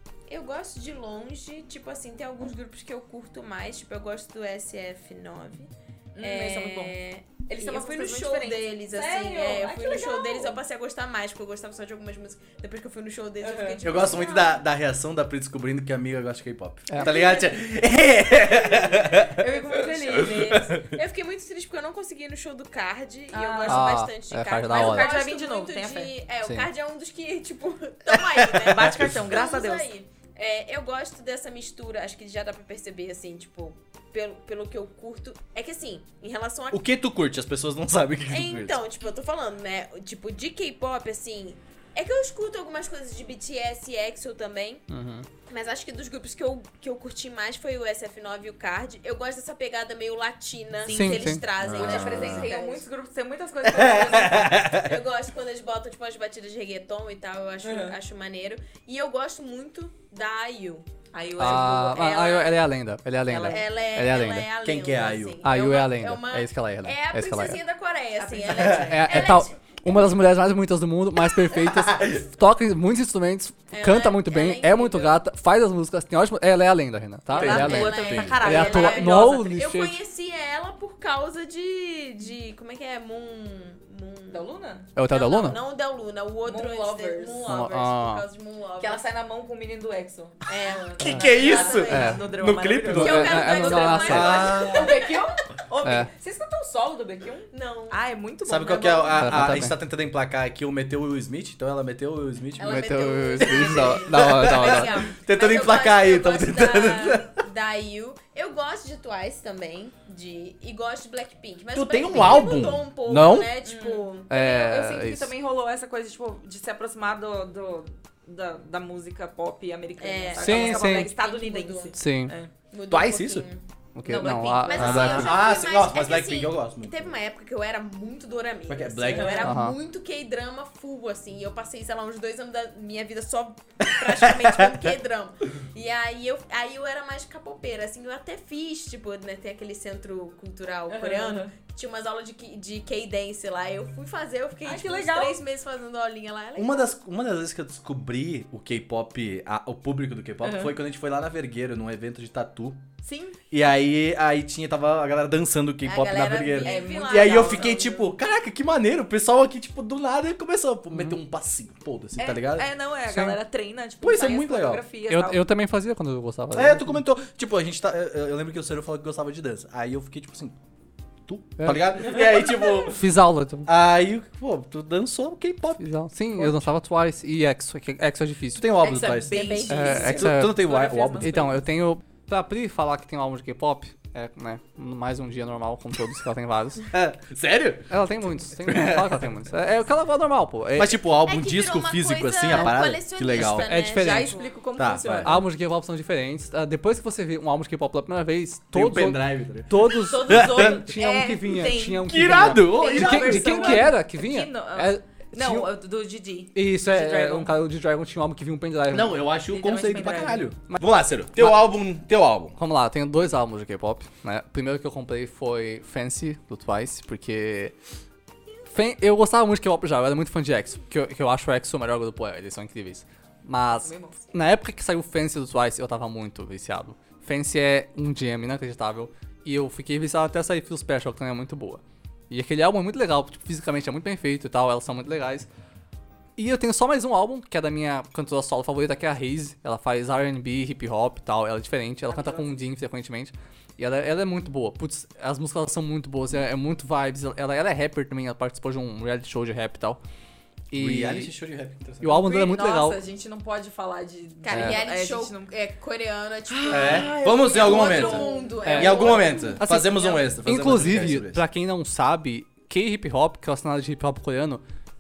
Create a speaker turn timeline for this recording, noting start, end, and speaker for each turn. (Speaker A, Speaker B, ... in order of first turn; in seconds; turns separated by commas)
Speaker A: 0.3-14.6, Speaker B: 6.2-10.6, Speaker B: 13.4-13.9, Speaker C: 13.8-19.4, Speaker A: 17.0-17.6, Speaker A: 18.4-36.9, Speaker B: 19.4-20.6, Speaker C: 20.2-20.9, Speaker B: 23.3-24.0, Speaker D: 23.7-25.1, Speaker B: 24.7-26.1, Speaker B: 28.5-29.9, Speaker C: 28.6-29.1, Speaker C: 36.7-38.8, Speaker A: 38.3-44.9, Speaker D: 44.9-45.3, Speaker A: 45.5-52.9, Speaker B: 50.9-54.6, Speaker D: 50.9-51.4, Speaker C: 51.6-52.5, Speaker C: 53.6-55.0, Speaker A: 54.8-60.9, Speaker B: 57.6-58.0, Speaker B: 61.1-62.2, Speaker D: 61.4-64.5, Speaker A: 61.4-62.7, Speaker B: 63.3-63.6, Speaker A: 63.4-69.6, Speaker C: 64.6-65.4, Speaker D: 65.4-67.6, Speaker B: 68.2-69.4, Speaker D: 68.9-80.0, Speaker C: 71.9-72.2, Speaker A: 73.7-75.2, Speaker B: 77.3-79.5, Speaker A: 77.4-84.5, Speaker C: 77.4-78.5, Speaker B: 84.3-84.9, Speaker D: 85.0-85.6, Speaker A: 85.0-89.0, Speaker B: 86.5-87.5, Speaker D: 87.4-88.2, Speaker B: 88.8-90.4, Speaker A: 90.5-92.2, Speaker C: 91.0-95.0, Speaker D: 91.0-91.3, Speaker B: 91.1-99.4, Speaker D: 91.9-92.3, Speaker D: 92.9-94.6, Speaker A: 92.9-95.2, Speaker D: 95.8-96.1, Speaker A: 97.5-98.0, Speaker C: 98.5-107.4, Speaker D: 99.2-99.8, Speaker A: 102.6-114.3, Speaker D: 102.6-105.1, Speaker C: 111.7-113.5, Speaker B: 113.6-122.5, Speaker D: 114.3-115.3, Speaker A: 120.0-122.0, Speaker D: 120.4-121.1, Speaker D: 122.0-122.3, Speaker A: 122.7-123.6, Speaker C: 122.9-123.5, Speaker D: 124.0-125.3, Speaker B: 124.0-125.4, Speaker A: 124.7-146.9, Speaker C: 124.8-127.1, Speaker C: 128.7-129.5, Speaker B: 129.1-129.5, Speaker D: 129.4-129.8, Speaker C: 134.0-134.9, Speaker B: 140.9-141.5, Speaker B: 144.6-145.4, Speaker C: 146.6-152.8, Speaker B: 150.4-150.8, Speaker B: 153.0-153.4, Speaker C: 153.5-162.7, Speaker A: 155.8-158.2, Speaker B: 156.5-157.8, Speaker B: 162.2-165.4, Speaker D: 163.1-163.4, Speaker C: 164.0-164.8, Speaker D: 165.1-167.0, Speaker C: 166.5-170.6, Speaker C: 171.3-173.1, Speaker D: 171.6-172.2, Speaker D: 172.9-173.7, Speaker C: 173.7-175.8, Speaker D: 175.8-178.7, Speaker C: 176.4-176.7, Speaker C: 178.5-181.4, Speaker A: 178.8-180.2, Speaker B: 178.8-181.6, Speaker D: 179.7-186.9, Speaker C: 186.9-188.0, Speaker D: 187.9-191.0, Speaker C: 188.6-189.2, Speaker C: 190.8-193.7, Speaker A: 191.2-194.5, Speaker D: 192.5-192.8, Speaker D: 193.3-194.4, Speaker B: 193.9-195.4, Speaker C: 194.8-195.4, Speaker D: 195.2-205.7, Speaker C: 198.7-200.9, Speaker B: 199.9-207.5, Speaker C: 202.0-203.9, Speaker D: 206.5-209.2, Speaker C: 208.9-212.6, Speaker B: 209.5-210.5, Speaker D: 210.7-211.8, Speaker D: 212.6-217.7, Speaker D: 218.7-235.5, Speaker B: 223.8-224.2, Speaker D: 236.4-250.0, Speaker B: 242.1-242.5, Speaker D: 250.7-251.3, Speaker C: 250.8-252.2, Speaker D: 252.0-253.0, Speaker B: 252.1-255.5, Speaker A: 254.4-259.6, Speaker D: 254.5-254.8, Speaker B: 256.5-259.4, Speaker C: 256.7-261.4, Speaker D: 258.6-264.6